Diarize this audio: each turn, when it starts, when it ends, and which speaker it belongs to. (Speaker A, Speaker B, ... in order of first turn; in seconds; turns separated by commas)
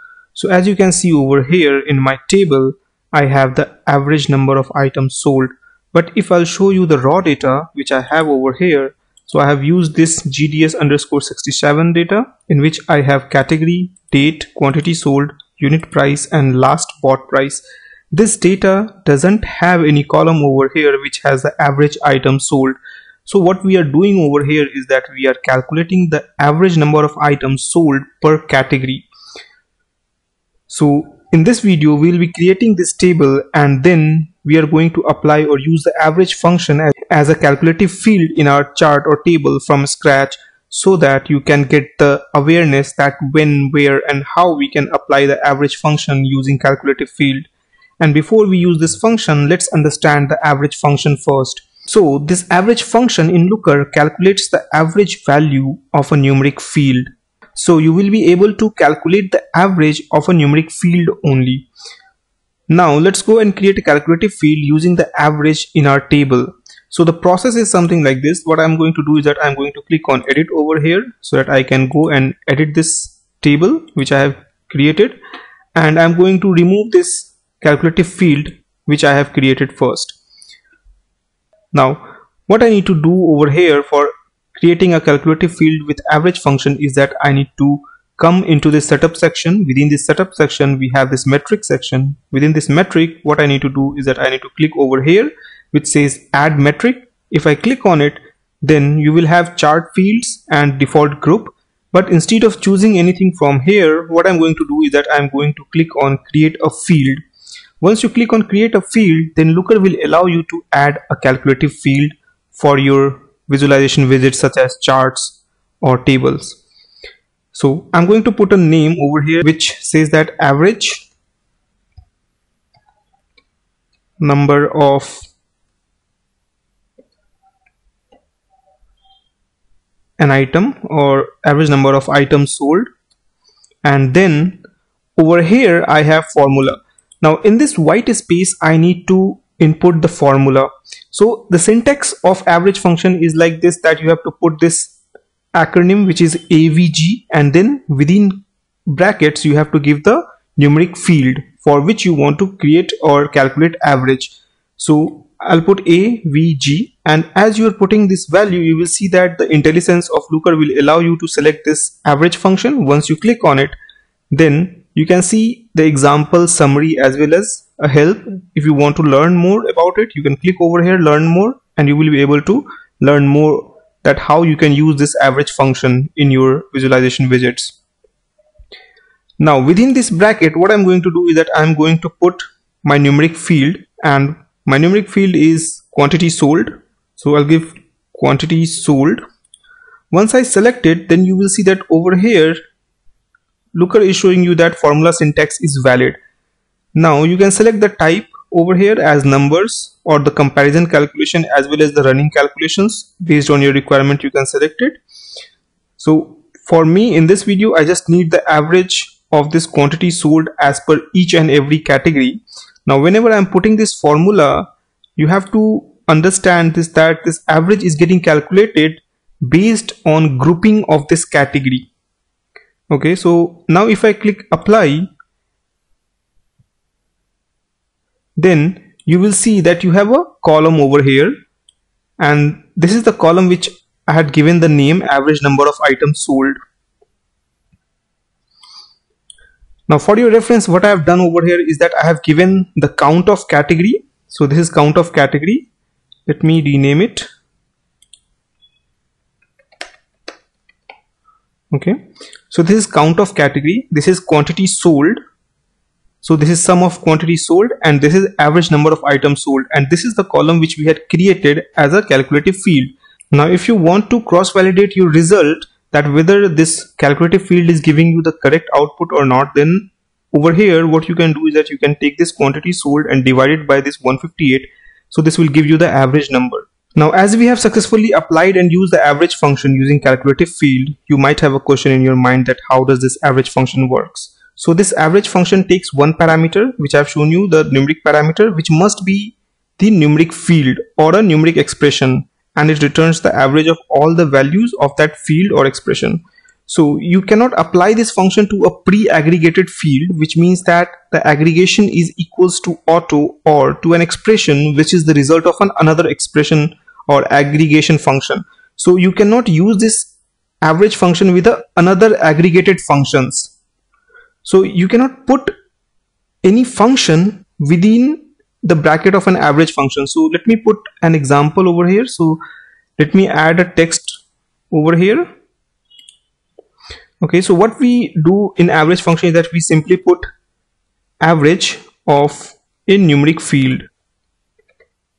Speaker A: 0.3-29.1, Speaker A: 30.7-47.5, Speaker A: 48.0-61.7, Speaker A: 62.7-75.2, Speaker A: 75.7-80.2, Speaker A: 81.7-107.2, Speaker A: 107.8-116.6, Speaker A: 117.5-121.0, Speaker A: 124.2-125.2, Speaker A: 130.2-132.9, Speaker A: 133.8-134.6, Speaker A: 135.2-144.9, Speaker A: 145.5-163.7, Speaker A: 164.3-177.8, Speaker A: 179.4-189.2, Speaker A: 190.1-192.6, Speaker A: 193.7-196.2, Speaker A: 196.9-205.0, Speaker A: 206.0-221.9, Speaker A: 222.9-225.1, Speaker A: 228.4-231.4, Speaker A: 232.2-236.6, Speaker A: 239.9-245.7, Speaker A: 246.3-247.3, Speaker A: 251.7-252.0, Speaker A: 252.5-255.2, Speaker A: 256.2-310.1, Speaker A: 310.6-313.5, Speaker A: 314.4-315.5, Speaker A: 316.4-322.4, Speaker A: 323.0-325.3, Speaker A: 327.2-330.2, Speaker A: 331.2-333.9